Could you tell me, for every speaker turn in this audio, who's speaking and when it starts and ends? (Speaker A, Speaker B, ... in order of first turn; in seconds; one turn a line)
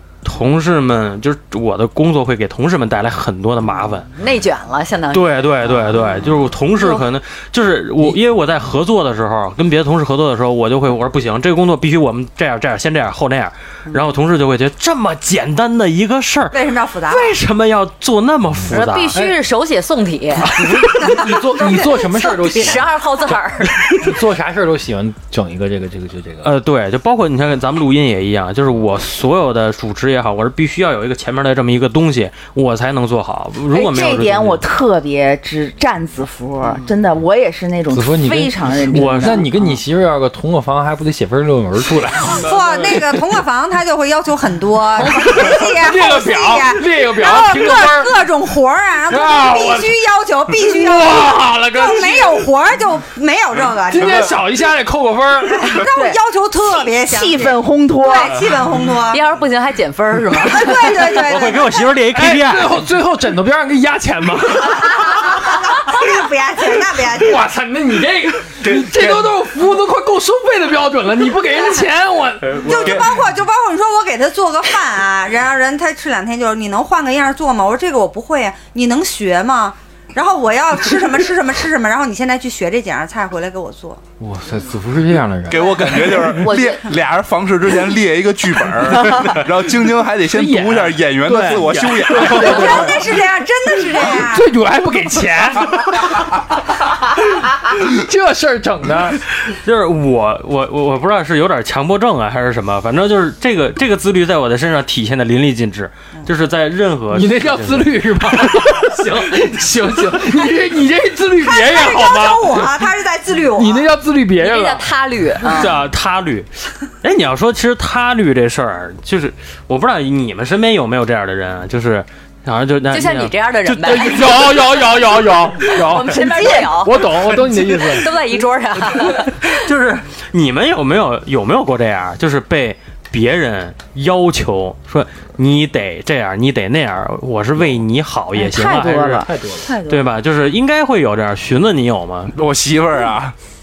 Speaker A: 0.2-4.1
Speaker B: 4.1-6.2
Speaker A: 5.1-19.2
Speaker B: 6.8-7.0
Speaker C: 16.5-17.4
Speaker B: 18.7-20.5
Speaker D: 20.4-26.5
Speaker C: 21.0-22.8
Speaker B: 22.1-23.8
Speaker A: 26.4-34.6
Speaker E: 33.7-39.8
Speaker B: 36.6-36.9
Speaker D: 37.9-43.2
Speaker A: 38.9-39.4
Speaker C: 42.4-54.3
Speaker D: 45.0-48.2
Speaker D: 49.1-50.0
Speaker D: 50.5-52.5
Speaker D: 53.9-55.8
Speaker C: 55.5-59.2
Speaker E: 55.9-56.2
Speaker E: 56.9-58.5
Speaker B: 59.1-61.1
Speaker C: 60.4-61.8
Speaker A: 61.1-62.8
Speaker D: 62.1-65.5
Speaker C: 65.4-67.4
Speaker D: 67.0-73.1
Speaker F: 68.6-69.2
Speaker C: 72.6-84.0
Speaker D: 84.2-86.4
Speaker F: 85.5-92.8
Speaker B: 86.3-86.8
Speaker D: 88.8-89.4
Speaker D: 90.3-93.2
Speaker C: 92.3-94.5
Speaker D: 93.8-99.2
Speaker A: 99.5-108.6
Speaker D: 107.1-112.9
Speaker C: 111.4-113.9
Speaker D: 113.5-114.9
Speaker B: 114.4-115.8
Speaker A: 115.4-124.3
Speaker B: 122.9-124.5
Speaker D: 123.8-128.1
Speaker B: 125.6-129.6
Speaker A: 129.0-139.3
Speaker E: 138.3-140.1
Speaker D: 139.0-139.7
Speaker A: 139.9-142.3
Speaker F: 142.3-143.3